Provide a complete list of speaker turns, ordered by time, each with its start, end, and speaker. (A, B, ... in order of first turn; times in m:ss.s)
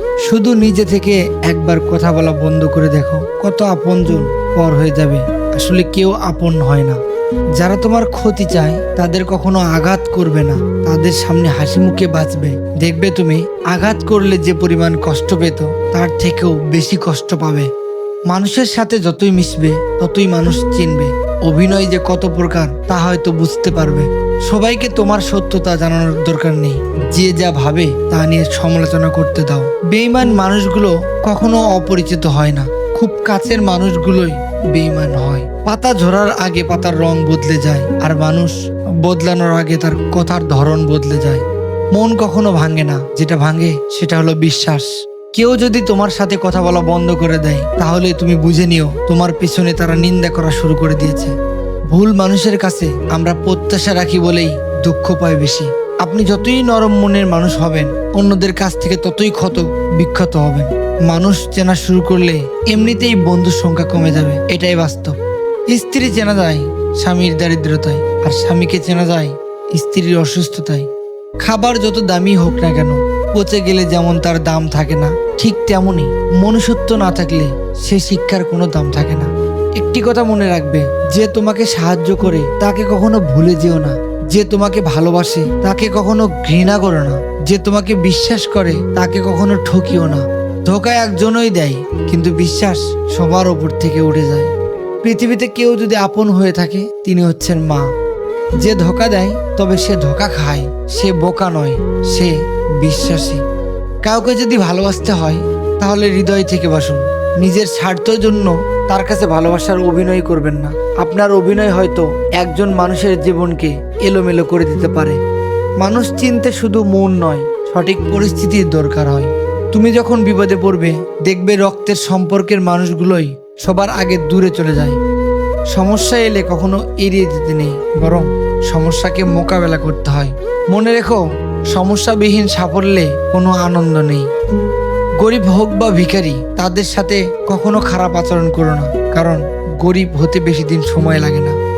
0:00.3-0:07.0 A
0:07.6-0:17.7 A
0:18.3-0:41.4 A
0:42.0-0:51.3 A
0:51.9-1:05.1 A
1:05.7-1:10.8 A
1:11.4-1:34.5 A
1:35.0-1:37.8 A
1:38.6-1:43.4 A
1:44.0-1:55.2 A
1:55.8-2:05.0 A
2:05.7-2:11.2 A
2:11.7-2:14.2 A
2:15.2-2:21.5 A